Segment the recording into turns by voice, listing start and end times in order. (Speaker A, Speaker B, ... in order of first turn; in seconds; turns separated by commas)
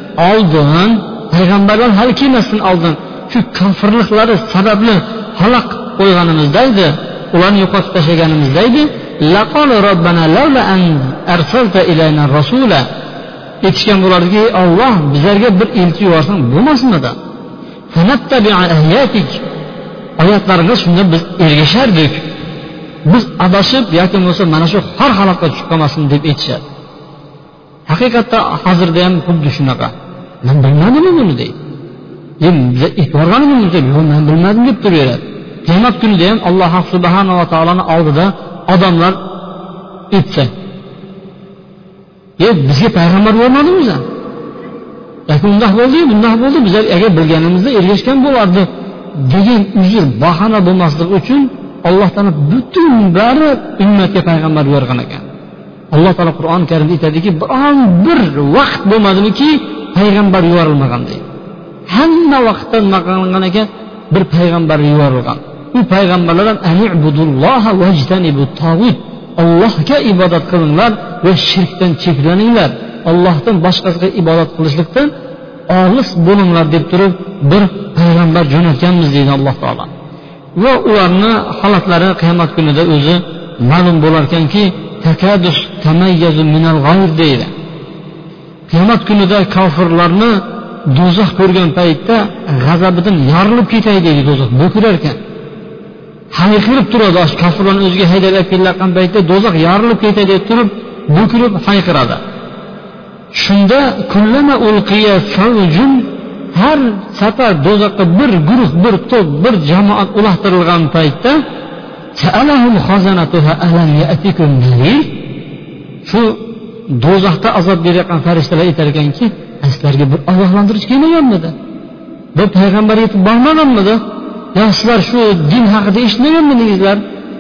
Speaker A: 0.2-12.9, Speaker A: 13.6-17.1, Speaker A: 17.9-19.4, Speaker A: 20.2-22.3, Speaker A: 23.1-26.6, Speaker A: 27.9-29.9, Speaker A: 30.4-31.6, Speaker A: 32.4-39.2, Speaker A: 40.1-40.5, Speaker A: 42.4-44.0, Speaker A: 45.3-55.2, Speaker A: 55.9-61.2, Speaker A: 61.9-75.1, Speaker A: 75.7-79.9, Speaker A: 80.6-87.5, Speaker A: 88.7-95.2, Speaker A: 96.3-102.2, Speaker A: 103.3-111.4, Speaker A: 112.1-115.2, Speaker A: 116.0-121.6, Speaker A: 122.4-124.0, Speaker A: 124.5-127.0